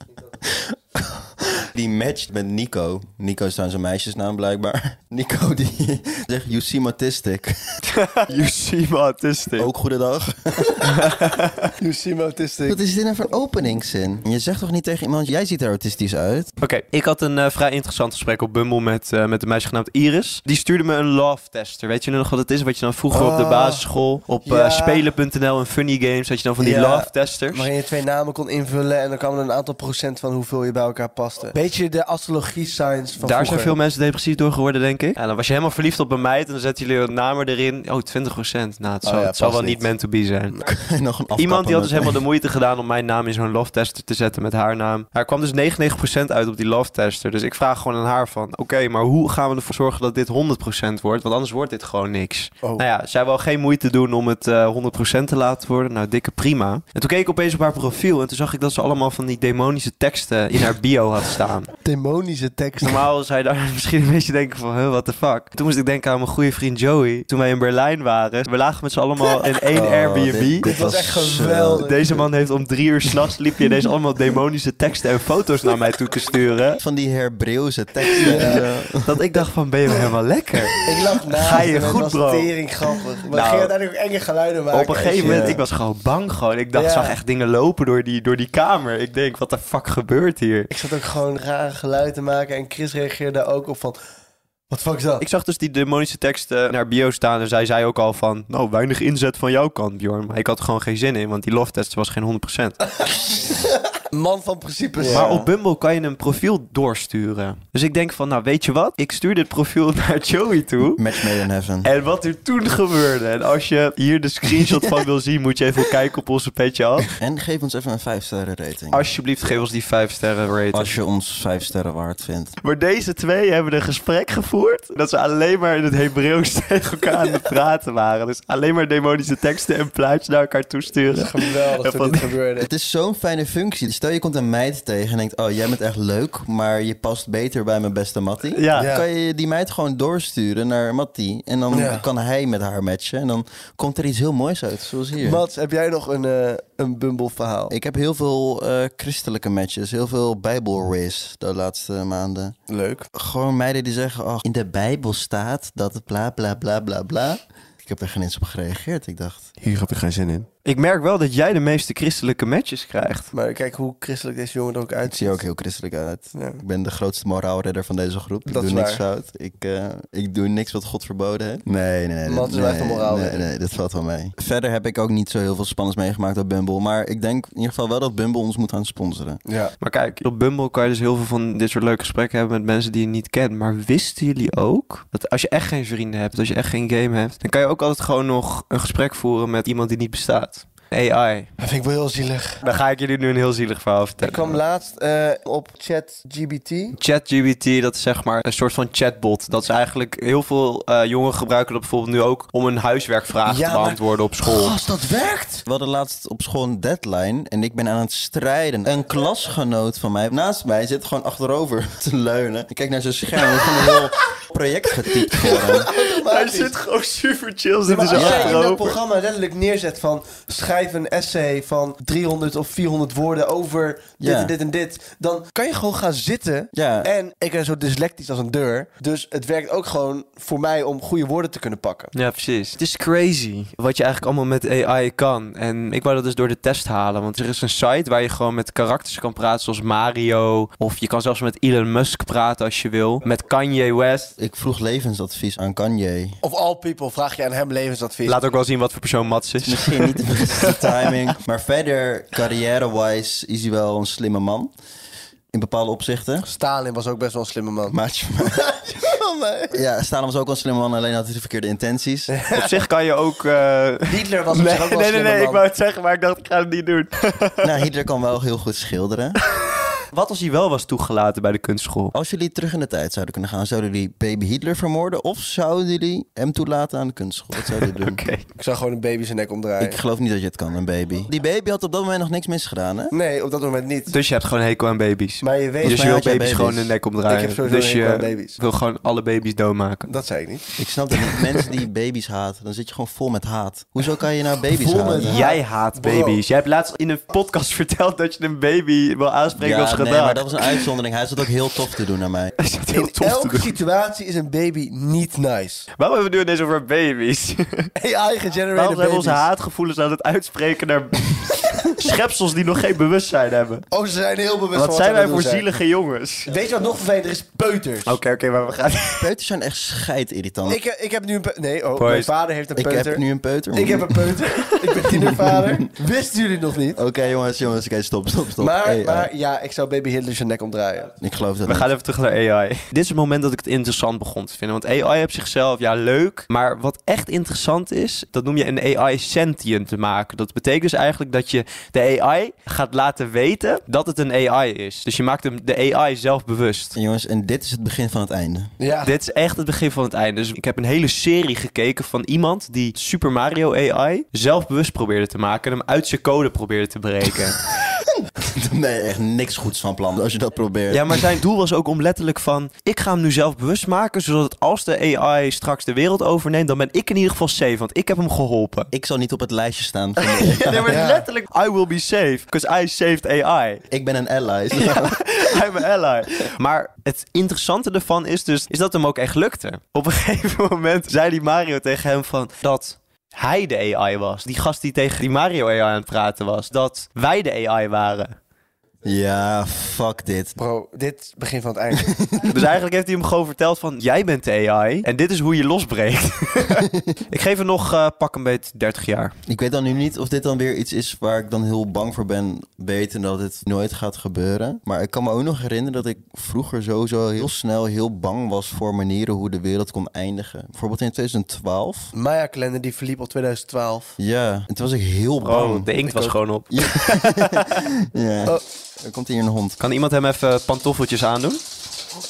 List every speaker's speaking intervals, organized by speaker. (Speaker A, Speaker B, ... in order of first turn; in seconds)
Speaker A: 0.4-7.8, 9.6-11.2, 12.7-16.5, 40.6-42.2, 69.7-72.2, 76.8-79.2, 85.2-85.6, 105.0-105.5, 111.0-111.9, 117.2-119.0, 120.7-122.6, 132.6-145.4, 147.7-152.5, 153.1-159.4, 165.1-179.4, 205.6-215.9, 218.1-218.6, 224.2-224.5, 226.7-227.1, 244.4-246.4, 249.6-254.7, 255.5-256.5, 257.9-258.7, 259.7-262.3, 267.6-269.4, 272.1-278.2, 279.8-283.1, 285.8-286.9, 290.8-295.4, 299.6-302.6, 319.2-320.8, 322.7-324.4, 325.1-325.8, 326.9-329.3, 331.2-331.9, 346.9-348.7, 357.8-361.3, 368.9-371.0, 373.9-375.3, 389.0-390.6, 392.0-392.6, 399.4-412.1, 414.2-419.8
Speaker B: 7.9-9.7, 10.8-11.7, 16.6-27.7, 33.2-40.6, 41.4-61.7, 62.8-70.7, 71.8-76.8, 78.1-82.5, 83.3-83.7, 84.7-90.7, 95.2-102.8, 105.0-111.2, 111.8-117.1, 118.9-120.9, 122.6-132.3, 138.5-138.9, 160.6-163.3, 179.8-191.5, 192.6-194.6, 197.0-204.7, 215.3-219.0, 232.1-244.3, 248.2-251.2, 262.5-267.7, 269.5-272.1, 277.6-278.4, 284.1-290.1, 295.2-300.9, 302.6-303.8, 305.9-307.9, 308.7-313.8, 314.7-316.5, 318.1-319.3, 322.0-322.3, 331.6-346.9, 349.0-357.7, 360.9-368.9, 370.2-373.8, 374.7-388.4, 392.4-399.3, 415.4-417.9, 419.8-421.6
Speaker C: 11.8-12.8, 23.1-23.8, 24.4-25.1, 26.6-33.7, 39.0-39.9, 61.8-63.0, 70.6-72.0, 78.2-78.6, 80.8-85.6, 86.7-87.2, 90.7-94.0, 94.7-95.2, 103.2-105.4, 131.1-132.7, 138.7-139.0, 141.7-142.0, 145.2-147.7, 152.7-153.1, 159.6-160.5, 163.3-165.4, 166.3-166.6, 168.4-169.0, 172.2-173.4, 179.4-179.7, 191.6-192.6, 194.2-197.0, 203.4-205.6, 215.4-216.7, 217.8-232.1, 246.4-248.4, 256.4-259.8, 262.3-262.8, 264.1-265.6, 278.6-280.0, 283.1-284.1, 285.4-286.0, 287.3-288.6, 290.1-290.7, 294.7-296.4, 302.9-305.9, 307.9-309.5, 313.9-315.7, 316.5-318.2, 320.6-327.0, 328.6-331.1, 348.8-349.1, 370.9-371.2, 390.6-392.1, 412.1-414.2